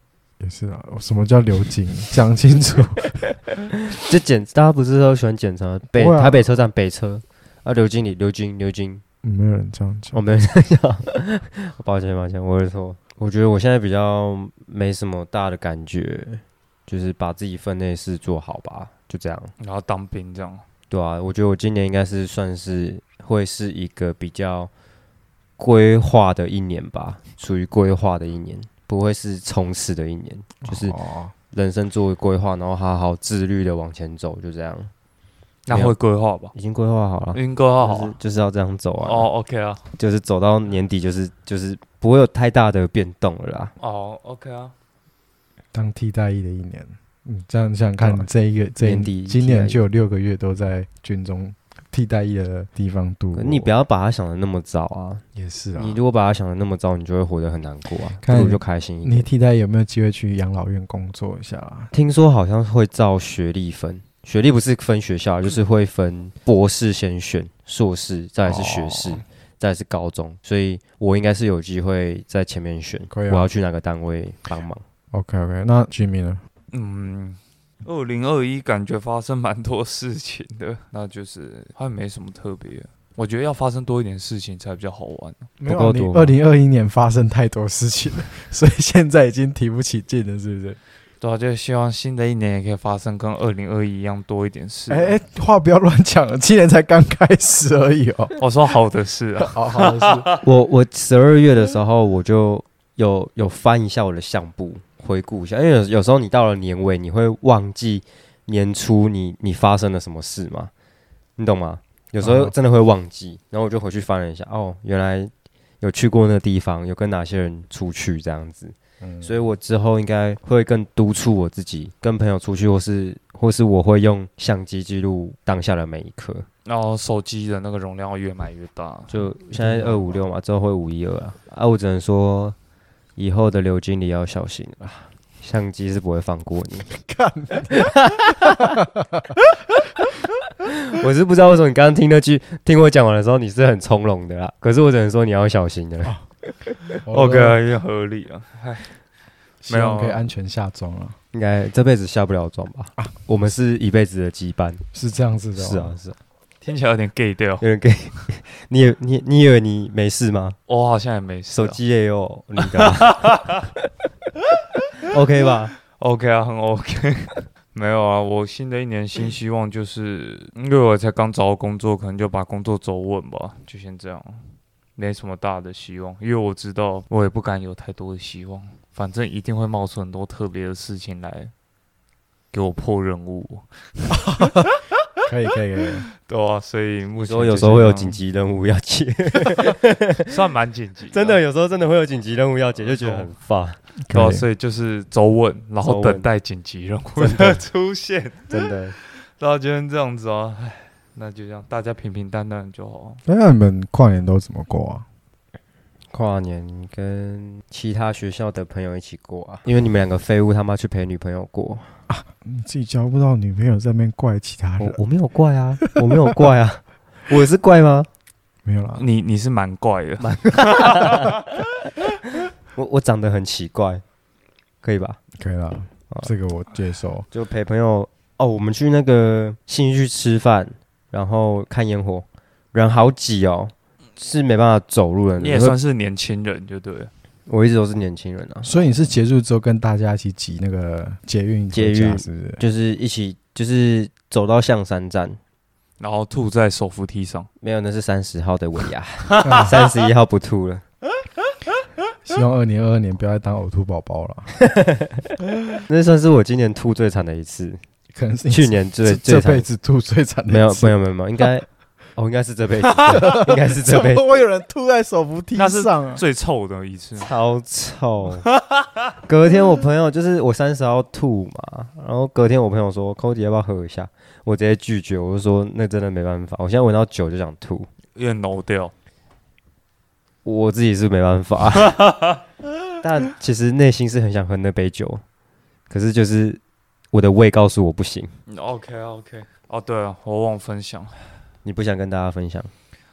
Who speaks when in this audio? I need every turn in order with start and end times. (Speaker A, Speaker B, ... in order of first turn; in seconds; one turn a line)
Speaker A: 0.4-3.2
Speaker B: 3.7-9.0
Speaker A: 6.0-6.5
Speaker A: 9.2-10.2
Speaker B: 10.1-19.5
Speaker C: 19.6-20.6
Speaker B: 20.9-24.7
Speaker B: 25.6-31.0
Speaker A: 30.6-31.3
Speaker B: 31.5-34.9
Speaker C: 35.7-36.5
Speaker B: 36.5-39.3
Speaker C: 37.3-38.1
Speaker C: 39.0-39.8
Speaker B: 40.0-43.7
Speaker C: 43.8-44.7
Speaker A: 45.7-53.7
Speaker B: 48.0-48.3
Speaker B: 48.8-49.8
Speaker B: 53.4-55.2
Speaker A: 55.4-56.0
Speaker B: 55.8-59.3
Speaker A: 58.2-61.9
Speaker B: 61.9-74.8
Speaker A: 68.5-69.2
Speaker A: 73.1-73.5
Speaker A: 75.1-76.4
Speaker C: 76.7-85.5
Speaker A: 85.6-90.8
Speaker B: 85.7-86.3
Speaker C: 91.2-95.2
Speaker A: 94.9-98.4
Speaker C: 98.4-100.4
Speaker A: 99.4-100.3
Speaker B: 100.4-110.7
Speaker B: 111.4-126.5
Speaker A: 112.2-112.5
Speaker A: 119.0-119.5
Speaker C: 126.7-130.1
Speaker B: 129.1-132.6
Speaker B: 133.2-136.9
Speaker A: 136.9-139.4
Speaker B: 137.7-138.8
Speaker B: 140.6-146.1
Speaker A: 147.1-147.6
Speaker C: 147.1-149.0
Speaker A: 149.6-151.2
Speaker C: 149.7-150.2
Speaker B: 151.3-154.8
Speaker A: 154.9-156.0
Speaker B: 155.6-156.2
Speaker C: 156.6-157.7
Speaker B: 157.6-160.6
Speaker C: 160.7-161.8
Speaker B: 161.5-163.7
Speaker C: 162.6-163.7
Speaker C: 164.5-164.9
Speaker B: 165.0-165.7
Speaker C: 165.9-174.4
Speaker C: 175.0-181.5
Speaker C: 182.5-184.7
Speaker A: 184.2-184.7
Speaker A: 185.3-186.1
Speaker C: 186.2-188.2
Speaker B: 187.2-190.3
Speaker C: 189.6-191.4
Speaker B: 191.1-193.8
Speaker C: 192.8-193.3
Speaker A: 194.1-194.4
Speaker C: 194.1-198.6
Speaker B: 195.8-196.3
Speaker B: 197.2-197.6
Speaker B: 198.5-198.9
Speaker C: 199.4-203.2
Speaker A: 203.3-205.1
Speaker B: 206.1-211.8
Speaker A: 212.1-215.0
Speaker B: 214.8-218.1
Speaker A: 218.7-219.0
Speaker C: 219.0-221.6
Speaker B: 220.2-224.0
Speaker B: 224.8-225.2
Speaker A: 225.4-227.3
Speaker B: 227.3-235.8
Speaker C: 235.4-237.1
Speaker B: 237.5-238.7
Speaker A: 238.6-242.6
Speaker B: 241.7-245.4
Speaker C: 246.0-247.5
Speaker B: 247.6-250.8
Speaker C: 249.3-249.8
Speaker A: 249.4-249.8
Speaker A: 252.2-254.5
Speaker B: 254.6-255.3
Speaker B: 255.9-257.8
Speaker A: 258.1-261.5
Speaker B: 258.5-259.7
Speaker B: 260.5-264.3
Speaker A: 263.1-266.2
Speaker C: 265.6-267.3
Speaker B: 267.2-268.4
Speaker C: 268.4-269.0
Speaker B: 269.3-277.9
Speaker C: 278.1-278.9
Speaker B: 280.4-282.0
Speaker C: 281.8-282.4
Speaker B: 283.0-285.2
Speaker B: 285.9-286.6
Speaker B: 287.1-288.3
Speaker C: 288.5-291.1
Speaker B: 291.6-292.7